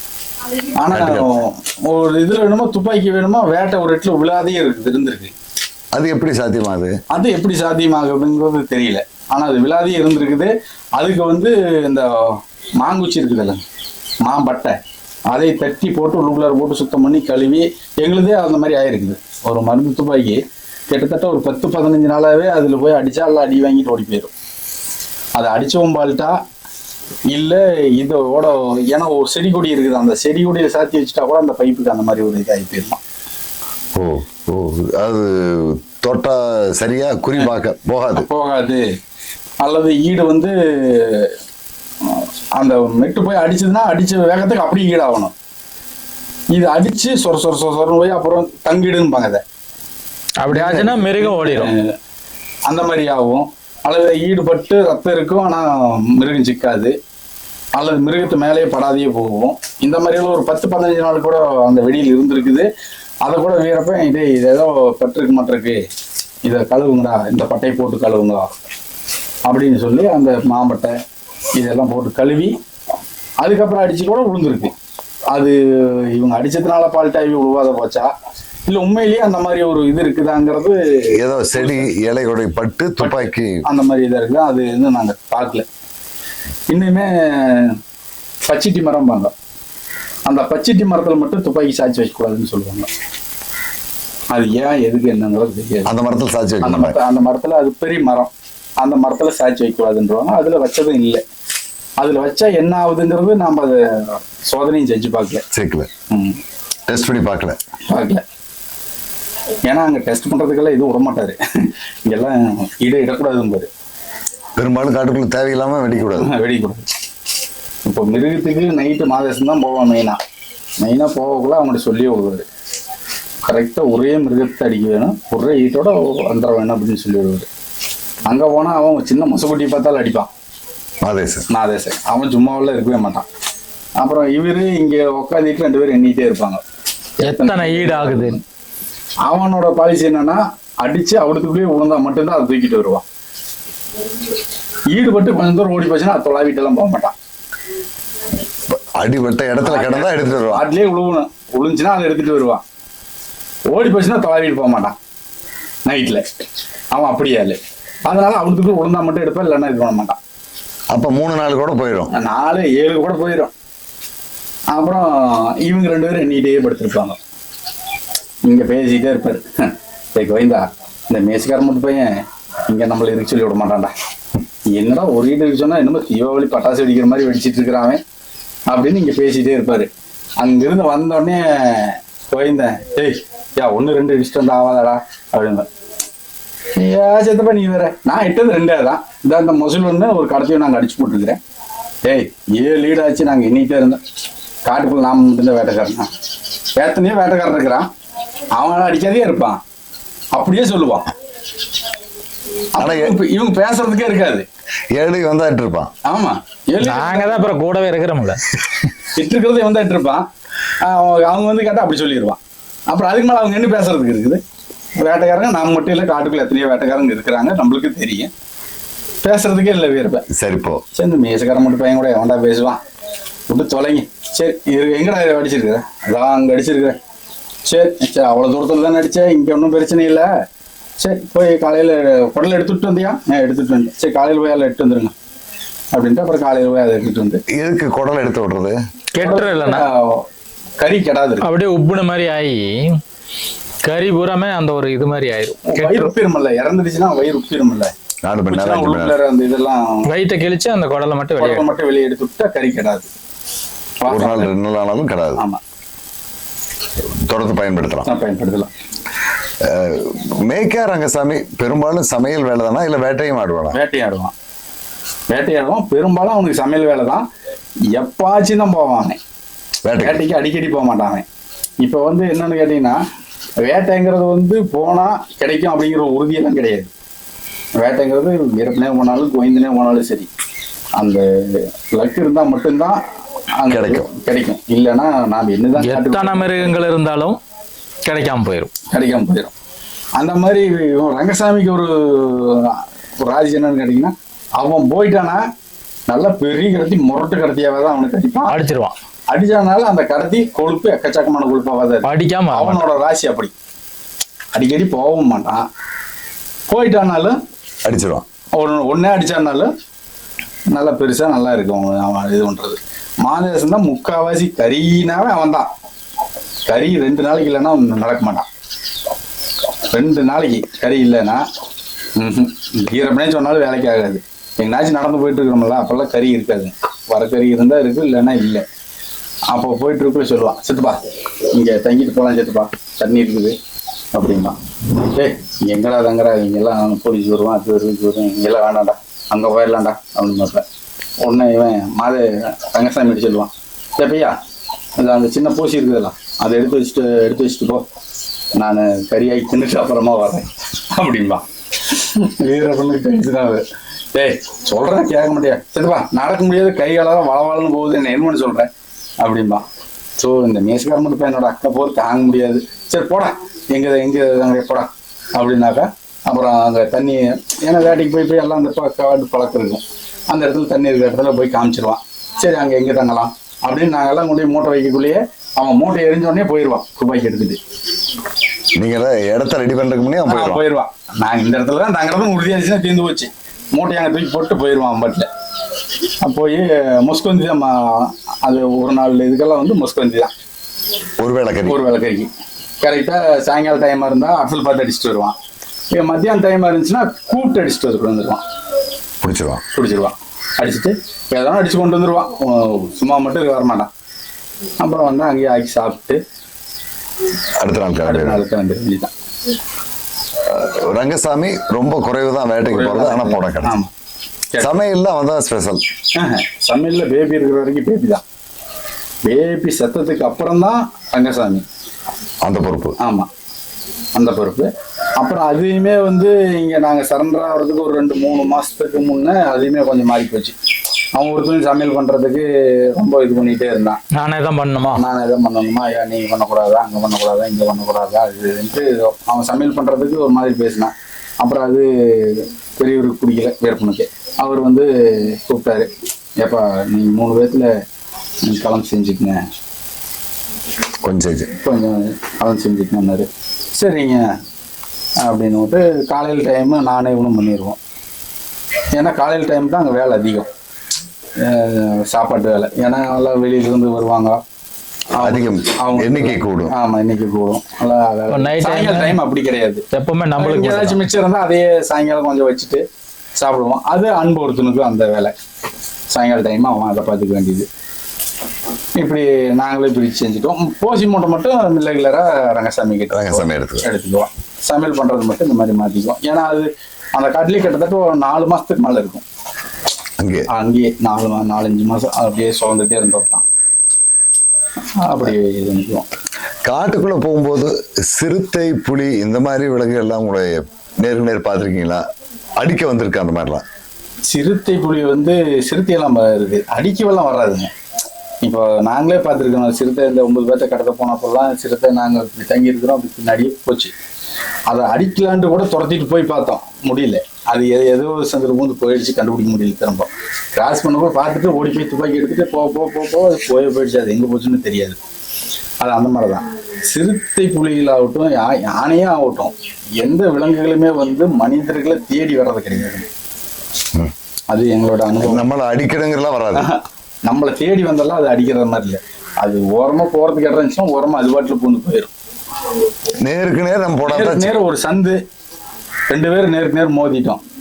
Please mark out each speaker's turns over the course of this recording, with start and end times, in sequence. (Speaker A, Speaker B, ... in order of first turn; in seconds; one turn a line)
Speaker A: 0.8-5.3
Speaker B: 0.9-1.3
Speaker B: 5.9-6.9
Speaker A: 7.1-13.6
Speaker A: 14.2-14.8
Speaker A: 15.3-24.3
Speaker A: 25.3-26.3
Speaker A: 27.3-33.0
Speaker B: 33.9-38.3
Speaker A: 38.1-38.8
Speaker A: 39.6-41.3
Speaker A: 42.0-45.3
Speaker A: 46.5-49.4
Speaker C: 50.4-51.7
Speaker A: 50.5-51.9
Speaker A: 52.7-56.9
Speaker A: 57.8-62.7
Speaker A: 63.2-65.8
Speaker A: 66.4-68.5
Speaker A: 69.5-70.9
Speaker A: 71.5-72.5
Speaker A: 73.4-74.7
Speaker A: 75.3-78.1
Speaker A: 78.7-81.9
Speaker B: 81.2-83.6
Speaker A: 83.0-85.7
Speaker A: 86.7-87.8
Speaker A: 88.5-89.3
Speaker A: 90.3-92.9
Speaker A: 94.3-95.9
Speaker B: 95.8-97.0
Speaker A: 96.6-101.2
Speaker A: 102.0-105.4
Speaker B: 105.5-105.9
Speaker A: 106.1-106.4
Speaker B: 106.9-107.6
Speaker A: 107.9-108.2
Speaker A: 109.7-113.7
Speaker B: 114.6-116.3
Speaker A: 116.2-116.8
Speaker A: 117.8-120.2
Speaker A: 120.8-122.5
Speaker A: 123.4-127.5
Speaker A: 128.2-130.3
Speaker B: 131.0-131.4
Speaker A: 131.5-133.2
Speaker A: 134.0-136.6
Speaker C: 137.2-138.4
Speaker A: 137.2-138.4
Speaker A: 139.2-143.0
Speaker A: 144.9-147.1
Speaker B: 148.7-150.6
Speaker A: 149.6-152.6
Speaker A: 153.7-154.9
Speaker A: 155.8-156.2
Speaker A: 156.9-160.2
Speaker B: 160.9-162.1
Speaker A: 162.1-163.5
Speaker A: 164.7-167.2
Speaker A: 168.4-173.9
Speaker A: 174.7-178.0
Speaker A: 178.7-185.7
Speaker A: 186.8-191.4
Speaker A: 192.1-194.0
Speaker A: 194.6-196.1
Speaker A: 196.8-197.9
Speaker A: 198.5-199.6
Speaker A: 200.3-201.1
Speaker A: 202.7-204.4
Speaker B: 202.8-203.2
Speaker B: 204.9-205.9
Speaker A: 206.0-207.5
Speaker C: 206.8-208.4
Speaker A: 209.1-210.2
Speaker A: 210.8-214.4
Speaker A: 215.0-218.3
Speaker A: 219.2-220.2
Speaker B: 220.3-220.8
Speaker A: 220.9-222.8
Speaker A: 223.5-227.0
Speaker A: 227.6-230.3
Speaker A: 231.0-235.1
Speaker A: 235.9-237.4
Speaker B: 237.5-238.8
Speaker C: 239.1-239.9
Speaker A: 239.2-240.2
Speaker A: 240.8-241.5
Speaker C: 241.4-243.0
Speaker C: 243.8-246.1
Speaker A: 245.7-247.9
Speaker B: 248.2-249.2
Speaker A: 248.5-250.1
Speaker C: 250.1-251.7
Speaker A: 251.4-253.1
Speaker A: 254.0-254.5
Speaker B: 254.1-255.4
Speaker A: 255.3-255.6
Speaker B: 257.1-258.1
Speaker A: 258.0-258.7
Speaker B: 259.6-263.8
Speaker A: 263.7-264.3
Speaker A: 265.3-267.2
Speaker A: 267.9-269.2
Speaker B: 269.8-270.2
Speaker A: 270.0-271.2
Speaker A: 271.8-273.0
Speaker A: 273.6-276.9
Speaker A: 277.8-280.3
Speaker A: 281.0-283.0
Speaker A: 283.6-286.7
Speaker B: 283.7-284.1
Speaker C: 285.8-287.4
Speaker C: 288.0-288.7
Speaker A: 288.9-289.5
Speaker A: 290.2-295.4
Speaker A: 296.1-298.6
Speaker C: 298.5-298.9
Speaker A: 299.3-303.5
Speaker C: 302.0-302.8
Speaker A: 304.5-305.6
Speaker A: 306.7-307.4
Speaker B: 307.8-308.2
Speaker A: 308.5-309.7
Speaker A: 310.7-315.7
Speaker A: 316.7-318.5
Speaker A: 319.9-321.4
Speaker A: 322.2-328.6
Speaker A: 329.5-331.0
Speaker A: 331.5-333.6
Speaker A: 334.1-334.6
Speaker A: 335.1-340.6
Speaker A: 341.2-344.4
Speaker A: 345.0-347.8
Speaker A: 348.6-353.6
Speaker A: 354.1-358.7
Speaker A: 359.2-359.6
Speaker A: 360.2-377.6
Speaker B: 378.8-380.6
Speaker A: 380.3-385.3
Speaker A: 386.2-390.3
Speaker B: 391.2-391.8
Speaker A: 391.6-392.3
Speaker A: 392.8-395.3
Speaker A: 395.9-398.4
Speaker B: 399.2-399.6
Speaker A: 399.7-403.9
Speaker A: 404.8-406.2
Speaker B: 407.6-408.4
Speaker A: 408.0-409.1
Speaker B: 410.4-413.8
Speaker A: 412.7-413.9
Speaker B: 414.6-415.8
Speaker A: 416.1-418.2
Speaker A: 419.2-421.6
Speaker B: 422.4-422.9
Speaker A: 423.0-423.3
Speaker A: 424.1-430.5
Speaker A: 431.1-434.0
Speaker C: 434.1-435.0
Speaker A: 434.9-447.7
Speaker A: 448.4-449.4
Speaker B: 451.0-451.5
Speaker A: 451.6-454.3
Speaker A: 455.2-457.8
Speaker A: 458.9-460.5
Speaker A: 461.4-464.4
Speaker A: 465.1-469.8
Speaker B: 465.2-466.7
Speaker C: 468.3-469.2
Speaker C: 469.9-471.0
Speaker A: 470.4-472.8
Speaker A: 473.4-475.3
Speaker A: 476.1-477.7
Speaker A: 479.0-489.2
Speaker B: 483.1-483.8
Speaker B: 490.2-490.5
Speaker A: 490.5-493.4
Speaker A: 495.0-496.1
Speaker B: 496.6-502.0
Speaker B: 502.6-503.6
Speaker A: 504.3-507.7
Speaker A: 508.4-513.9
Speaker A: 514.7-525.0
Speaker A: 525.8-533.0
Speaker A: 534.5-535.4
Speaker B: 535.2-536.7
Speaker A: 536.5-542.1
Speaker B: 543.2-544.5
Speaker A: 544.0-545.2
Speaker A: 546.1-547.4